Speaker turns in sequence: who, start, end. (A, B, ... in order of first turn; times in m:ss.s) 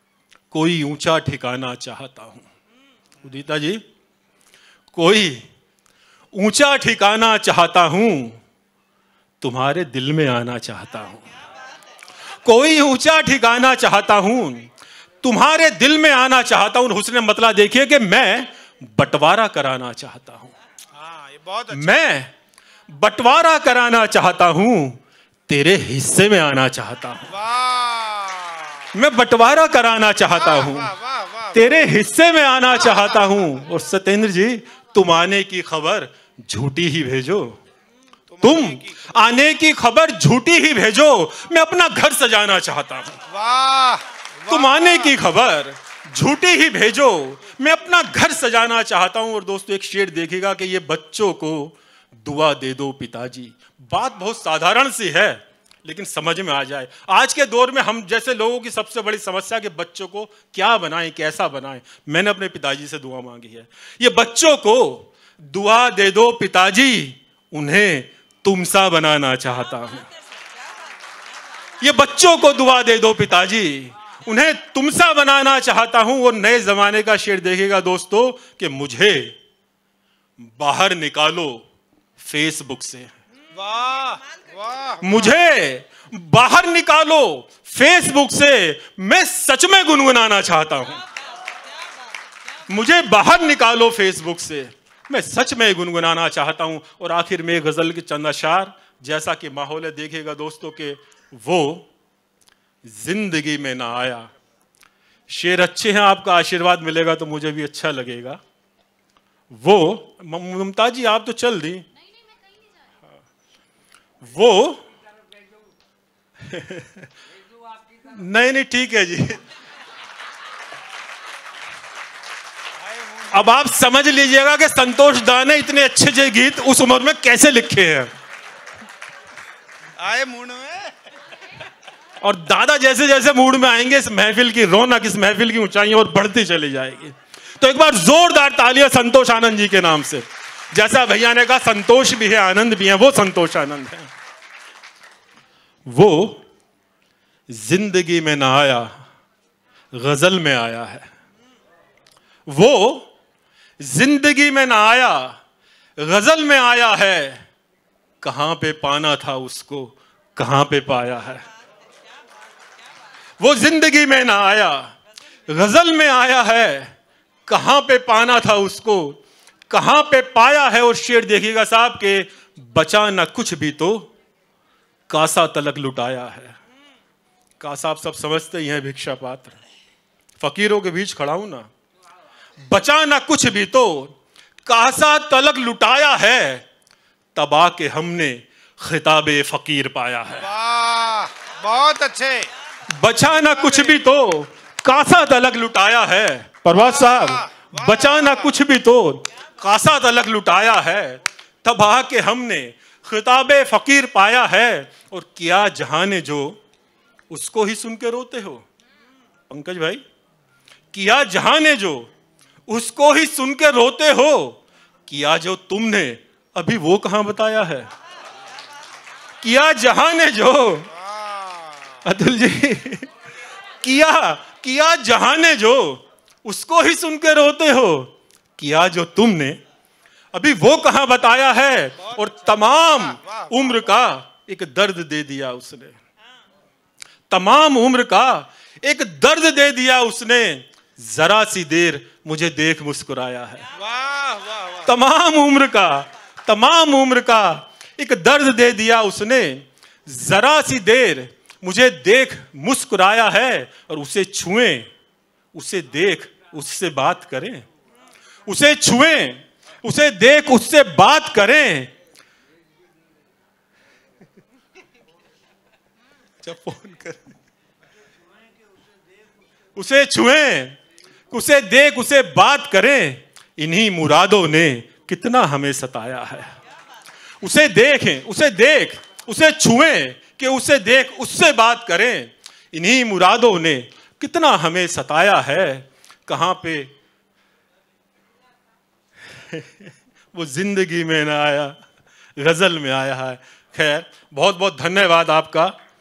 0:00.5-0:02.4 A
0:03.2-0:03.8 A
0:04.9-0:05.4 A
0:06.3-0:08.4 A
0:09.4-0:11.2 A
0:12.4-0:14.7 A
0:15.2-0:20.5 A
0:20.9-0:22.1 B
0:21.7-0:22.3 A
0:22.9-0:27.3 A
0:27.2-0:28.9 B
0:28.9-0:30.9 A
0:30.3-0:31.9 B
0:31.5-0:37.6 A
0:32.9-0:33.6 B
0:38.3-0:39.1 B
0:38.4-0:43.2 A
0:43.2-0:45.2 B
0:44.5-1:10.1 A
1:11.8-1:19.4 A
1:20.4-1:21.6 A
1:22.2-1:23.1 A
1:23.5-1:25.4 B
1:25.0-1:31.0 A
1:32.7-1:41.9 A
1:42.8-1:44.3 A
1:45.3-1:48.4 A
1:49.5-1:51.9 A
1:54.2-1:54.8 A
1:56.4-1:57.1 A
1:58.0-1:59.4 A
2:02.8-2:03.5 B
2:03.3-2:08.1 A
2:10.0-2:10.9 B
2:12.2-2:24.1 A
2:25.9-2:26.4 A
2:27.5-2:28.9 A
2:29.9-2:31.1 A
2:32.5-2:33.1 A
2:33.8-2:35.4 A
2:36.0-2:37.4 A
2:38.2-2:41.4 A
2:43.4-2:44.9 A
2:45.5-2:46.9 A
2:47.5-2:49.2 A
2:49.7-2:54.1 A
2:55.1-2:56.6 A
2:57.6-2:59.6 A
3:00.4-3:01.7 A
3:02.6-3:04.1 A
3:04.6-3:06.6 A
3:07.3-3:10.5 A
3:10.4-3:12.5 B
3:12.9-3:26.6 A
3:13.5-3:14.0 B
3:16.7-3:18.6 B
3:27.3-3:28.6 A
3:29.5-3:30.0 A
3:30.9-3:32.1 A
3:32.7-3:37.9 A
3:39.4-3:40.9 A
3:40.9-3:42.0 B
3:42.0-3:43.1 A
3:43.8-3:49.6 A
3:50.3-3:56.0 A
3:52.0-3:53.9 B
3:57.3-4:03.7 A
4:03.8-4:04.9 B
4:04.8-4:14.9 A
4:15.5-4:17.6 A
4:18.4-4:21.9 A
4:26.4-4:27.3 A
4:29.8-4:30.8 A
4:31.3-4:36.6 A
4:37.4-4:46.9 A
4:49.4-4:51.8 A
4:52.4-4:55.7 A